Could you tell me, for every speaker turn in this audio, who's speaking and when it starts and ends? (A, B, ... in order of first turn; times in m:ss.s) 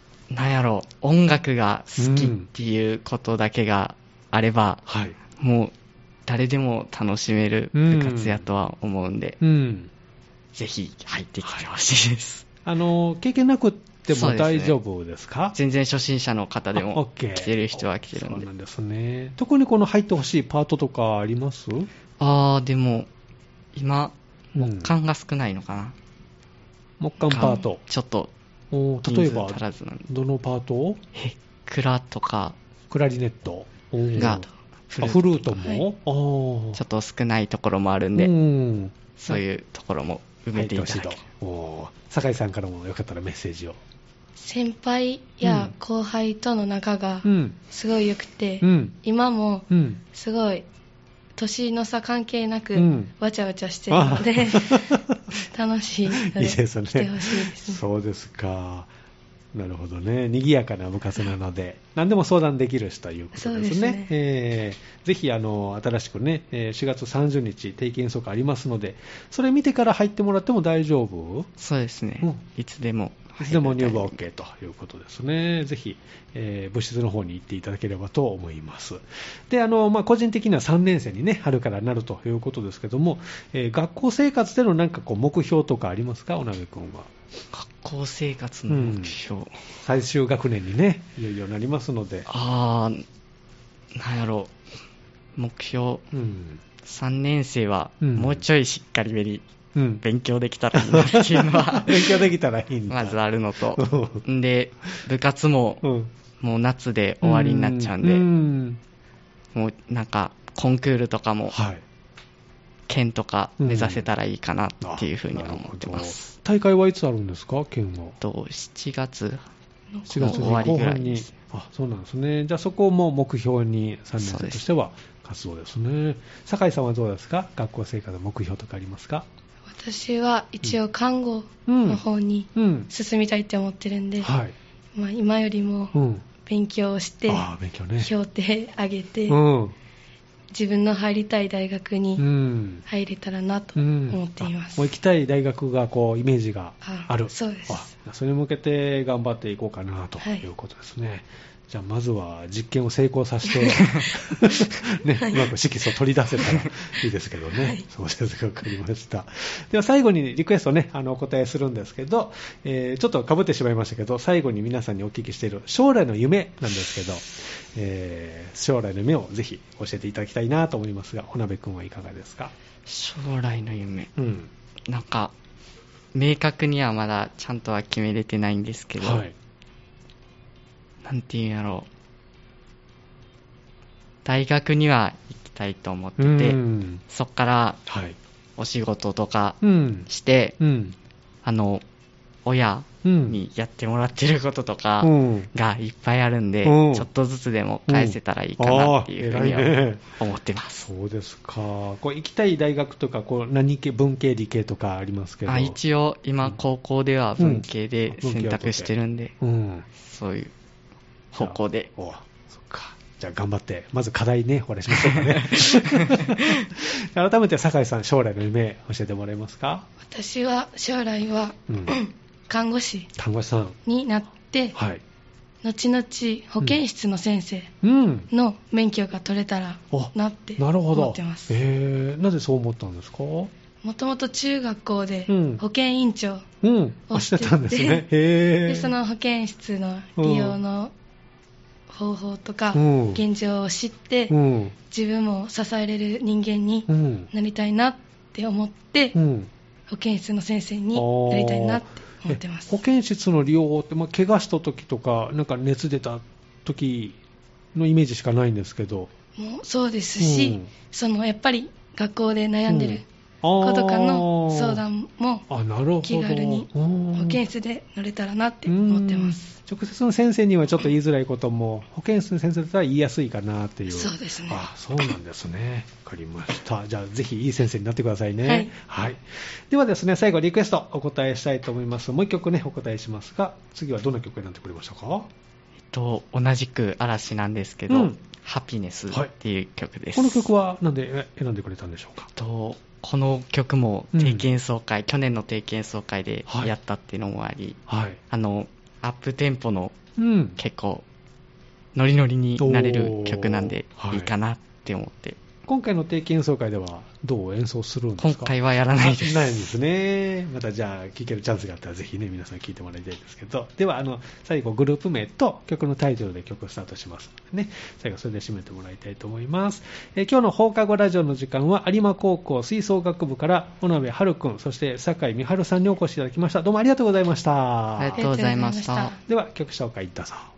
0:00.3-0:04.8 A
0:02.0-0:02.5 B
0:04.9-0:05.2 B
0:05.4-0:05.7 A
0:06.3-0:09.4 A
0:07.7-0:08.4 B
0:09.4-0:09.9 B
0:10.5-0:12.4 A
0:12.6-0:15.6 B
0:14.1-0:14.8 A
0:15.6-0:18.5 A
0:16.8-0:21.9 B
0:22.2-0:23.1 A
0:23.8-0:26.0 A
0:24.6-0:24.9 B
0:27.0-0:27.8 B
0:27.3-0:28.3 A
0:28.7-0:31.0 B
0:29.0-0:30.1 A
0:31.2-0:32.6 A
0:32.9-0:34.5 B
0:34.2-0:35.6 A
0:35.0-0:36.8 B
0:36.8-0:38.3 A
0:38.2-0:39.4 B
0:39.2-0:41.2 A
0:40.5-0:43.8 B
0:44.4-0:50.7 C
0:45.4-0:45.7 B
0:47.2-0:47.6 B
0:48.6-0:49.0 B
0:49.7-0:50.0 B
0:51.4-0:57.8 C
0:52.8-0:53.1 B
0:53.9-0:55.2 B
0:56.1-0:58.9 B
0:59.5-1:11.5 B
1:03.4-1:04.1 C
1:11.6-1:14.2 A
1:13.4-1:27.1 B
1:27.5-1:29.6 A
1:28.7-1:29.2 B
1:29.8-1:32.3 B
1:32.3-1:33.0 A
1:34.0-1:34.5 A
1:35.4-1:36.0 A
1:36.1-1:36.6 B
1:36.8-1:39.4 A
1:38.0-1:38.4 B
1:39.8-1:40.0 B
1:40.0-1:42.3 A
1:40.7-1:43.2 B
1:42.9-1:45.8 A
1:43.7-1:44.2 B
1:45.8-1:46.1 B
1:46.4-1:48.2 A
1:47.2-1:48.8 B
1:49.5-1:51.6 A
1:51.5-1:51.8 B
1:52.9-1:56.3 A
1:53.6-1:54.0 B
1:54.8-1:58.2 B
1:58.2-1:59.4 A
1:59.9-2:00.6 C
2:00.1-2:09.3 B
2:00.2-2:01.3 A
2:04.2-2:04.6 A
2:09.7-2:14.3 C
2:11.7-2:12.0 B
2:12.6-2:12.9 B
2:14.2-2:14.6 B
2:15.0-2:19.4 C
2:15.9-2:16.2 B
2:17.3-2:18.1 B
2:19.3-2:19.8 B
2:20.5-2:22.2 C
2:22.2-2:22.8 B
2:22.8-2:24.9 C
2:23.8-2:52.5 B
2:26.8-2:27.9 C
2:30.2-2:30.5 C
2:33.5-2:33.9 C
2:35.2-2:35.5 C
2:52.9-2:54.1 A
2:54.2-2:54.5 B
2:54.9-2:55.3 A
2:56.1-2:59.2 A
2:59.0-2:59.3 B
3:01.0-3:01.9 A
3:04.2-3:07.8 A
3:06.2-3:07.0 B
3:07.9-3:08.2 B
3:08.6-3:10.6 A
3:09.6-3:10.1 B
3:10.6-3:11.0 B
3:11.4-3:11.8 A
3:12.4-3:20.9 A
3:13.0-3:13.4 B
3:15.0-3:15.5 B
3:16.6-3:17.1 B
3:17.9-3:20.2 B
3:20.8-3:25.8 B
3:25.5-3:29.3 A
3:27.4-3:29.9 B
3:30.0-3:30.5 A
3:31.3-3:31.9 A
3:31.4-3:39.9 B
3:35.0-3:36.6 A
3:40.0-3:43.1 C
3:41.7-3:42.0 B
3:43.2-3:43.8 B
3:43.8-3:44.8 C
3:44.8-3:45.0 B
3:45.6-3:47.7 C
3:47.8-3:48.3 B
3:48.3-3:51.6 C
3:49.9-3:53.5 B
3:53.8-3:56.5 C
3:55.3-3:55.6 B
3:56.6-3:59.0 B
3:57.1-3:58.1 C
3:58.7-4:00.9 C
4:00.2-4:00.6 B
4:01.9-4:04.4 C
4:02.7-4:03.2 B
4:04.3-4:04.8 B
4:04.9-4:09.2 C
4:06.9-4:07.3 B
4:09.2-4:09.5 B
4:09.9-4:12.8 C
4:10.9-4:17.2 B
4:17.7-4:19.1 B
4:19.4-4:23.0 C
4:20.2-4:20.7 B
4:22.7-4:24.8 B
4:23.6-4:25.5 C
4:25.5-4:27.4 B
4:26.0-4:29.6 C
4:28.7-4:45.3 B
4:33.9-4:34.6 C
4:38.4-4:38.7 C
4:45.9-4:50.5 A
4:47.9-4:48.2 B
4:50.2-4:52.3 B
4:52.4-5:00.0 A
4:54.2-4:54.5 B
4:56.5-4:56.7 B
4:57.9-4:58.2 B
5:00.2-5:00.6 B
5:00.6-5:01.0 A
5:02.0-5:05.4 A
5:02.6-5:04.3 B
5:05.7-5:28.2 B
5:08.2-5:09.7 A
5:28.0-5:29.1 A
5:28.2-5:29.2 C
5:29.2-5:30.5 B